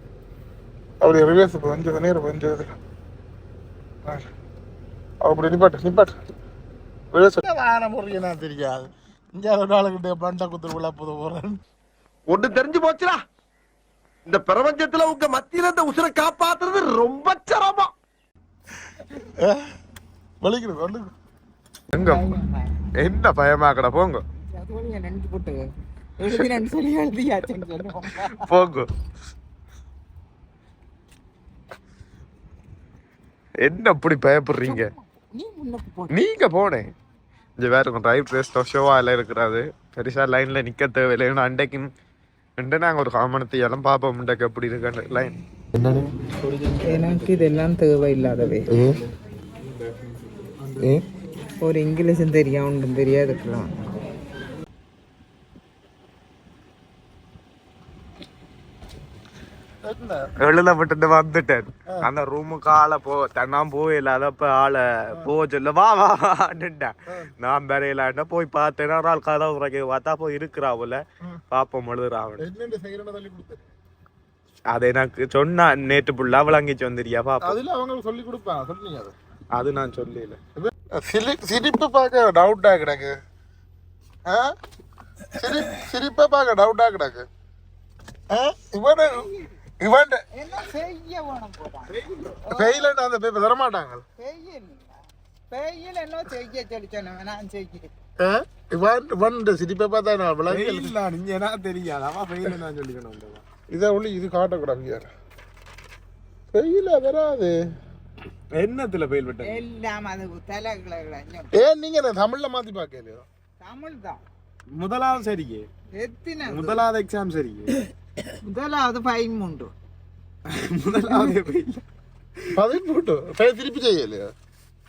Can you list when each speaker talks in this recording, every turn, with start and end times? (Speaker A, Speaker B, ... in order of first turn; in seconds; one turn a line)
Speaker A: 1.0-2.7
Speaker A: 5.2-6.1
Speaker A: 7.1-11.6
Speaker B: 12.3-13.2
Speaker B: 14.2-17.9
Speaker A: 19.2-19.7
Speaker A: 20.4-21.1
Speaker C: 21.9-22.3
Speaker D: 22.0-22.8
Speaker C: 22.9-24.2
Speaker D: 24.4-25.7
Speaker D: 26.2-28.4
Speaker C: 28.1-28.9
Speaker C: 33.6-34.9
Speaker D: 34.6-36.2
Speaker C: 36.1-36.9
Speaker C: 37.6-41.9
Speaker C: 42.6-47.3
Speaker D: 46.8-48.7
Speaker C: 48.7-49.0
Speaker A: 50.6-50.9
Speaker D: 51.6-54.0
Speaker A: 59.8-60.3
Speaker C: 60.4-72.5
Speaker A: 67.1-67.3
Speaker A: 72.4-73.6
Speaker C: 74.7-77.6
Speaker A: 77.4-79.1
Speaker C: 79.5-80.4
Speaker A: 80.6-83.1
Speaker A: 84.2-84.5
Speaker A: 85.3-87.3
Speaker A: 88.3-89.3
Speaker D: 89.1-89.5
Speaker A: 89.8-90.2
Speaker D: 90.3-92.9
Speaker C: 91.9-92.4
Speaker A: 92.5-94.0
Speaker D: 94.2-97.9
Speaker A: 98.2-100.9
Speaker C: 100.5-103.4
Speaker A: 103.7-105.1
Speaker A: 106.5-107.6
Speaker C: 108.5-109.6
Speaker D: 109.4-111.6
Speaker A: 111.5-113.2
Speaker D: 113.6-114.2
Speaker C: 114.7-115.7
Speaker D: 115.9-116.8
Speaker C: 116.5-117.8
Speaker D: 118.4-119.7
Speaker C: 120.5-121.8
Speaker D: 121.0-121.3
Speaker A: 122.5-124.3